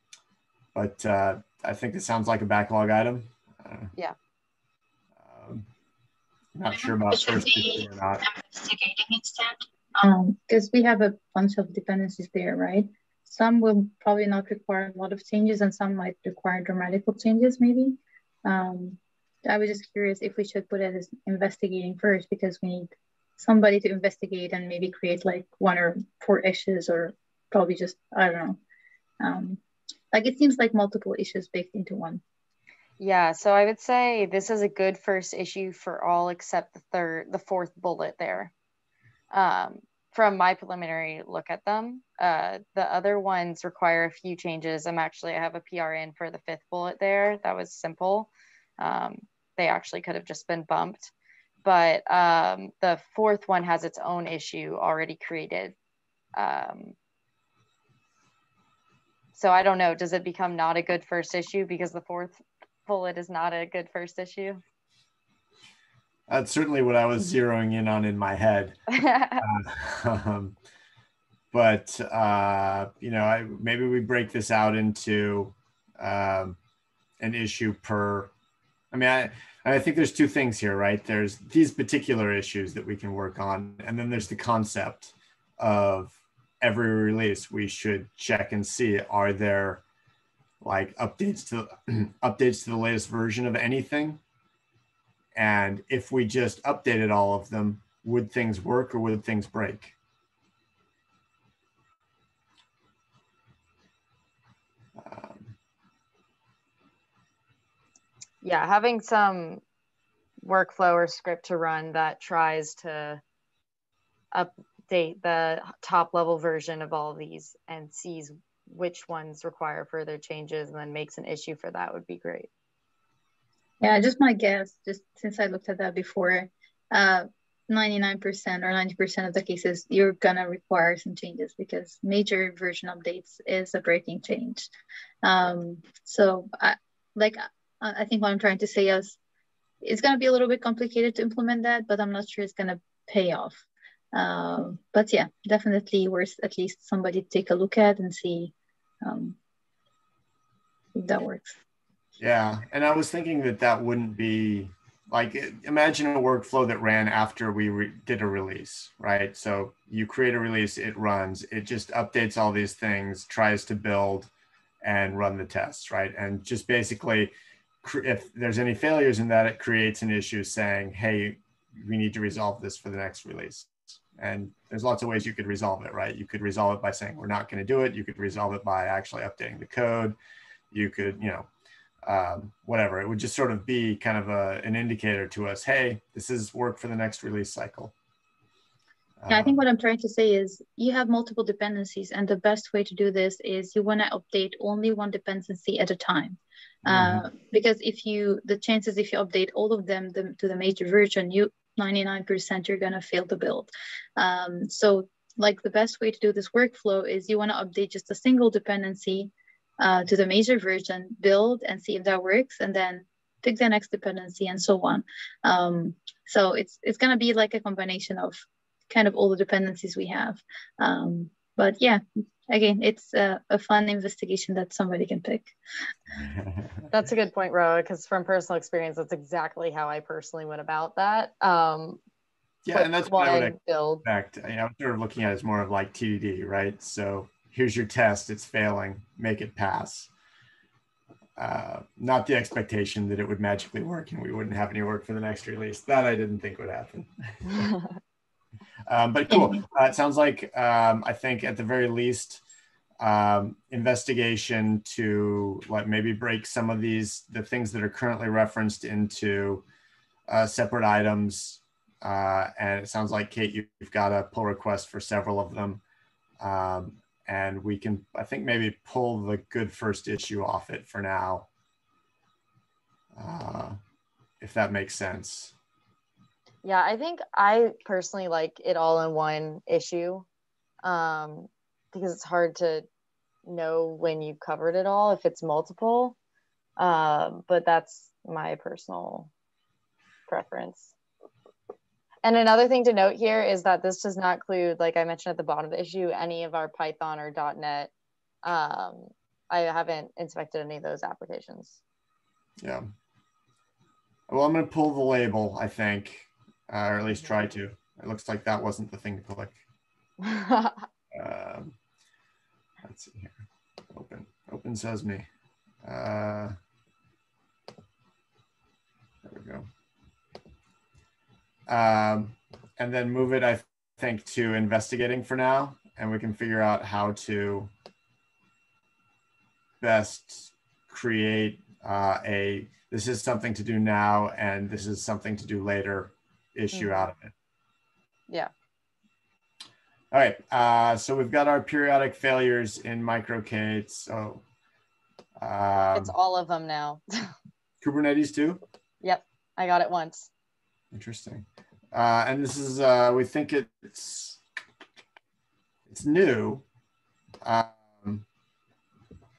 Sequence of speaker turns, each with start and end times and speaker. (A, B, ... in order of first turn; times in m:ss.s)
0:00.7-0:03.9 A
0:05.2-0:05.7 A
0:06.6-0:08.3 A
0:06.7-0:28.6 B
0:29.2-0:29.6 B
0:30.1-0:32.2 B
0:33.0-0:38.5 C
0:39.3-0:51.1 C
0:51.6-0:55.8 C
0:56.4-0:57.0 C
0:59.4-1:04.6 C
1:06.3-1:10.6 A
1:09.0-1:09.4 C
1:11.5-1:16.6 A
1:17.2-1:18.3 A
1:18.9-1:29.8 A
1:30.6-1:34.2 A
1:35.4-1:39.9 A
1:45.0-1:45.5 A
1:48.4-1:49.6 C
1:50.4-1:53.2 C
1:54.3-2:02.5 C
2:03.8-2:14.7 B
2:15.2-2:19.2 B
2:19.8-2:29.4 B
2:31.0-2:31.6 B
2:32.2-2:44.3 A
2:44.8-3:00.2 A
3:00.7-3:01.5 A
3:02.0-3:07.9 A
3:09.2-3:09.6 A
3:09.3-3:45.6 B
3:16.9-3:17.2 A
3:46.1-3:46.9 A
3:46.9-3:52.0 C
3:52.6-4:00.1 A
3:52.7-3:54.0 C
4:01.4-4:07.8 A
4:08.9-4:12.4 A
4:09.3-4:09.6 B
4:13.0-4:19.6 A
4:20.3-4:25.8 A
4:26.4-4:31.5 A
4:33.2-4:33.8 A
4:34.4-4:35.5 A
4:36.6-4:40.3 C
4:40.8-4:42.9 C
4:43.5-4:46.2 C
4:46.8-4:49.3 C
4:50.3-4:50.9 C
4:52.2-4:57.9 C
4:58.4-5:01.8 C
5:02.6-5:02.9 A
5:04.3-5:09.6 A
5:10.2-5:10.8 C
5:11.1-5:11.8 A
5:12.8-5:13.4 A
5:13.9-5:15.3 A
5:15.8-5:16.6 A
5:19.2-5:19.7 A
5:21.7-5:27.7 A
5:29.8-5:37.3 A
5:36.7-5:37.1 C
5:40.1-5:44.4 A
5:45.4-5:46.1 A
5:46.0-5:47.3 C
5:47.8-5:48.6 A
5:49.0-5:50.3 C
5:50.9-5:54.4 A
5:55.9-5:56.6 A
5:57.4-5:58.2 A